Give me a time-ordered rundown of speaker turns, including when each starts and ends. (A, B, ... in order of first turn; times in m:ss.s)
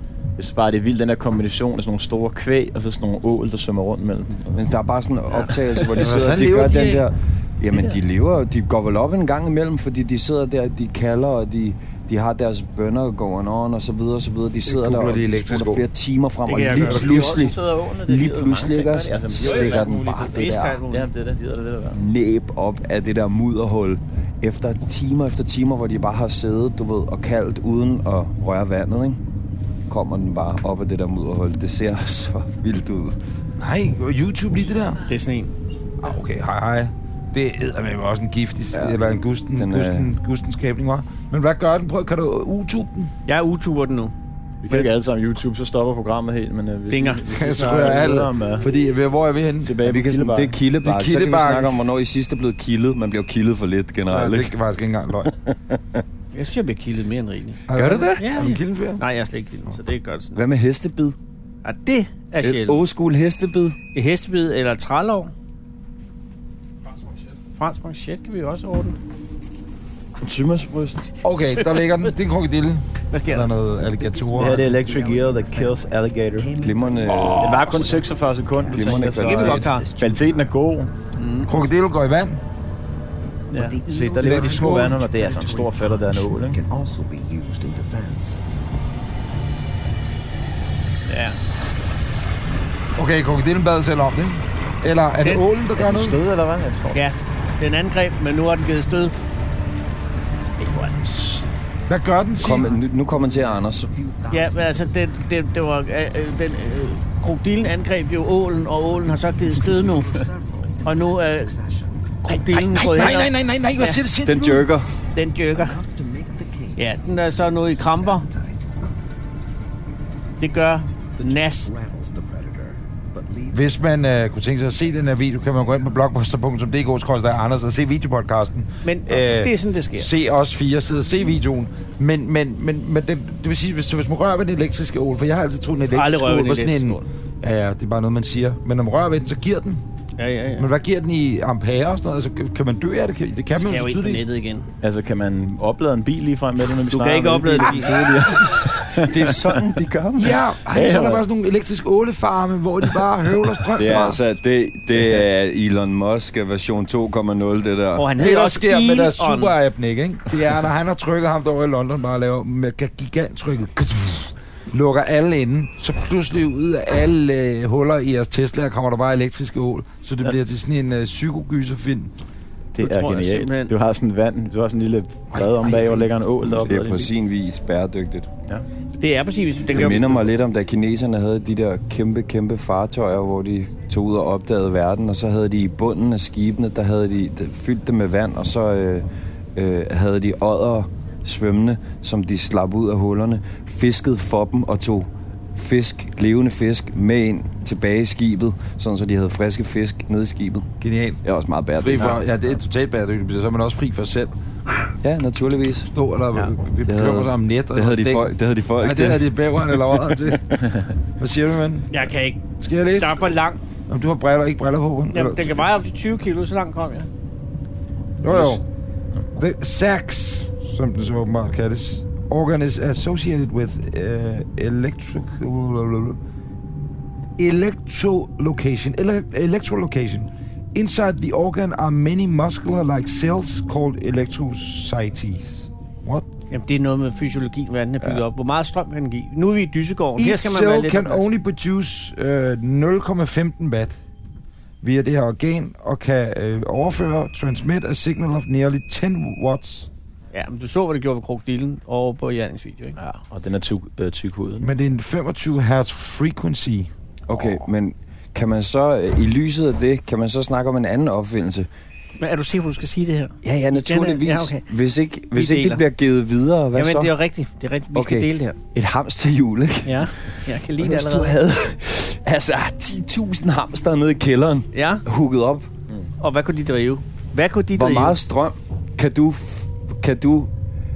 0:00.4-0:04.6 A
0:04.5-0:20.8 B
0:05.4-0:05.9 A
0:06.0-0:07.1 C
0:14.7-0:15.9 C
0:16.5-0:17.1 D
0:16.7-0:22.0 A
0:19.4-0:21.1 D
0:21.9-0:29.2 B
0:29.9-0:33.2 B
0:33.6-0:35.0 C
0:35.1-0:35.5 D
0:36.0-0:43.1 C
0:38.7-0:39.0 B
0:39.6-0:40.1 B
0:43.3-0:44.1 D
0:44.6-0:48.7 A
0:46.9-0:47.3 D
0:47.3-0:49.8 C
0:49.6-0:50.6 A
0:49.8-0:54.5 B
0:50.8-0:51.8 C
0:54.1-0:55.3 C
0:55.3-0:55.8 B
0:56.3-0:57.6 D
0:57.7-0:59.0 C
0:57.7-0:58.3 B
0:58.2-1:00.4 D
1:00.4-1:01.2 B
1:01.6-1:02.8 D
1:02.4-1:03.8 B
1:03.9-1:05.3 D
1:07.6-1:09.0 D
1:10.2-1:11.1 B
1:11.2-1:14.7 C
1:13.1-1:13.5 D
1:14.2-1:20.5 E
1:14.4-1:16.5 A
1:16.6-1:18.0 B
1:17.4-1:20.9 A
1:18.7-1:19.7 B
1:19.2-1:19.9 D
1:21.2-1:21.6 D
1:21.5-1:22.4 C
1:23.5-1:23.8 D
1:23.5-1:28.4 E
1:23.8-1:26.6 A
1:24.2-1:25.0 C
1:31.1-1:31.4 D
1:33.0-1:36.2 C
1:35.8-1:37.0 A
1:36.9-1:39.1 D
1:40.6-1:41.0 D
1:41.0-1:41.4 E
1:41.9-1:42.7 C
1:42.4-1:43.9 B
1:42.7-1:45.1 E
1:44.3-1:50.3 D
1:49.6-1:52.1 E
1:50.8-1:51.5 D
1:52.2-1:54.0 D
1:52.5-1:54.7 C
1:54.2-1:54.9 B
1:55.1-1:55.8 D
1:55.5-1:56.8 E
1:56.8-1:58.3 D
1:57.3-1:58.8 E
2:00.4-2:01.7 D
2:01.2-2:03.7 E
2:03.5-2:19.8 C
2:05.3-2:05.9 E
2:08.8-2:10.1 D
2:15.9-2:17.0 D
2:20.2-2:20.7 D
2:20.6-2:24.2 C
2:23.5-2:24.7 D
2:24.8-2:29.6 A
2:26.9-2:28.1 D
2:28.9-2:30.4 B
2:30.2-2:34.2 C
2:30.7-2:31.2 A
2:33.8-2:34.1 A
2:33.8-2:38.1 B
2:38.0-2:39.6 D
2:38.2-2:52.1 C
2:52.7-2:57.1 A
2:52.8-2:53.7 D
2:56.6-2:58.3 B
2:59.0-3:00.2 D
2:59.7-3:20.7 B
3:20.8-3:21.2 C
3:21.2-3:22.2 B
3:21.8-3:24.3 C
3:25.0-3:25.9 B
3:25.9-3:30.6 C
3:26.8-3:29.4 B
3:31.2-3:32.1 C
3:31.9-3:33.6 D
3:32.6-3:33.3 C
3:33.9-3:35.6 C
3:35.1-3:37.1 D
3:38.2-3:38.6 C
3:39.4-3:46.2 C
3:47.4-3:56.3 C
3:56.5-4:01.2 D
4:00.2-4:04.0 C
4:04.8-4:09.9 C
4:10.3-4:13.0 D
4:13.0-4:14.7 A
4:14.6-4:17.5 C
4:17.3-4:21.7 B
4:22.2-4:24.6 D
4:23.4-4:27.1 B
4:25.3-4:25.8 D
4:26.8-4:28.6 D
4:27.9-4:35.7 B
4:29.8-4:31.4 D
4:34.7-4:35.0 D
4:36.2-4:38.2 D
4:37.8-4:40.5 B